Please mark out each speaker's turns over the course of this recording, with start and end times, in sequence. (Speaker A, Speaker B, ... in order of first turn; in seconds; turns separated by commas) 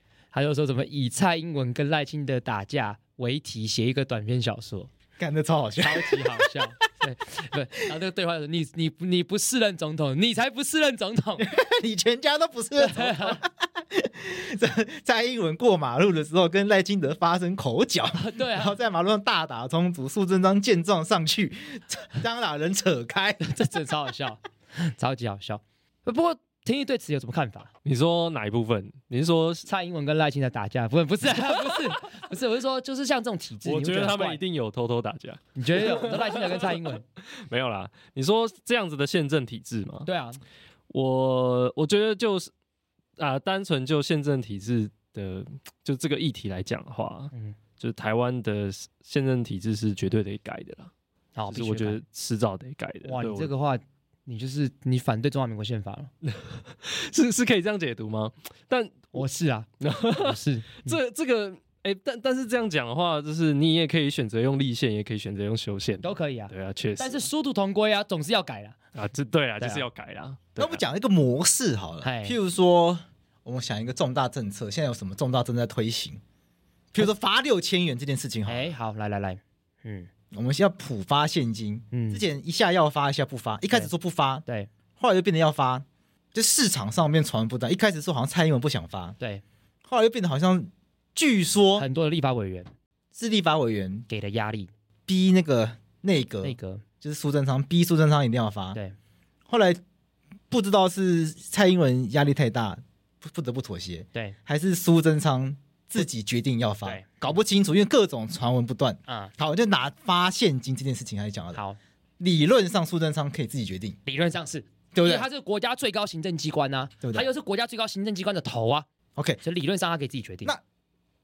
Speaker A: 0.3-4.9, Speaker B: 5.2-6.6, Speaker A: 5.8-11.5, Speaker B: 11.4-23.6, Speaker A: 12.8-13.4, Speaker A: 18.1-18.8, Speaker A: 23.4-27.7, Speaker C: 27.9-29.7, Speaker A: 29.7-34.4, Speaker C: 33.6-40.1, Speaker A: 35.5-37.0, Speaker A: 40.1-40.4, Speaker C: 40.9-42.5, Speaker C: 43.2-50.9, Speaker A: 51.4-52.0, Speaker C: 51.5-53.5, Speaker A: 53.0-56.1, Speaker C: 56.2-59.1, Speaker A: 59.1-61.0, Speaker C: 59.8-67.2, Speaker A: 66.0-68.8, Speaker C: 69.0-70.8, Speaker A: 69.6-69.8, Speaker B: 70.6-76.2, Speaker A: 72.0-72.4, Speaker B: 76.9-78.7, Speaker A: 78.5-80.1, Speaker B: 80.3-84.4, Speaker A: 81.9-82.2, Speaker B: 85.0-89.2, Speaker B: 89.8-91.9, Speaker A: 91.8-92.7, Speaker B: 93.1-94.1, Speaker A: 94.1-94.7, Speaker B: 95.1-98.8, Speaker A: 96.4-96.8, Speaker B: 99.5-99.8, Speaker B: 100.5-111.6, Speaker A: 106.8-107.4, Speaker A: 109.1-109.3, Speaker B: 112.2-114.0, Speaker A: 114.1-118.9, Speaker B: 114.9-115.3, Speaker B: 117.0-117.3, Speaker B: 119.2-119.4, Speaker A: 119.4-120.5